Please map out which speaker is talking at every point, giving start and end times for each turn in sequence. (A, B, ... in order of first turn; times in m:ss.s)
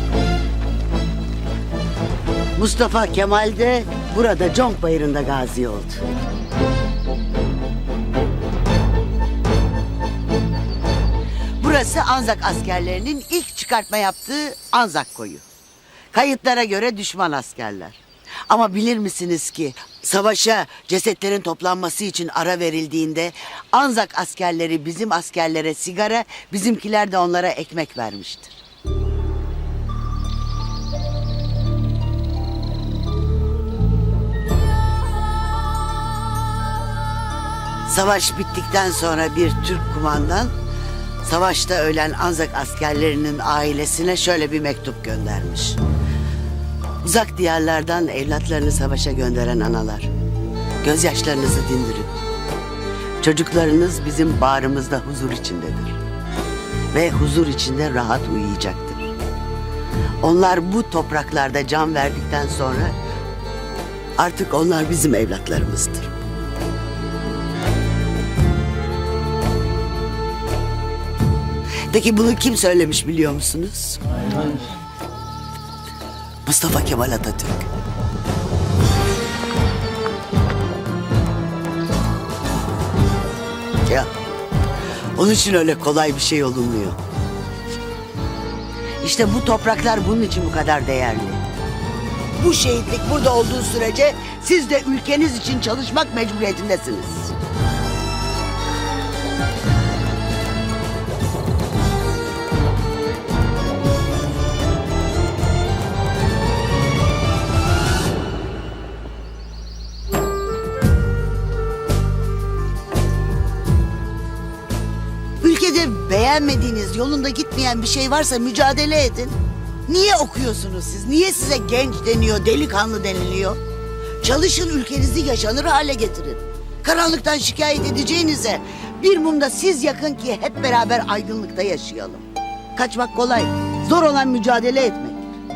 0:02.6-0:06.0 A
0:11.6-0:15.4 A
0:16.1-0:28.6 A
0:37.9-0:40.5 A
0:41.2-0:45.8 A
0:47.0-0:50.1 A
0:50.8-0:52.1 A
0:53.2-0:56.0 A
0:56.9-0:59.1 A
1:00.2-1:03.0 A
1:04.2-1:06.1 A
1:11.9-1:14.0 A
1:16.4-1:17.7 A
1:25.2-1:27.0 A
1:29.0-1:31.4 A
1:32.4-1:37.4 A
1:55.4-2:03.6 A
2:04.2-2:15.2 A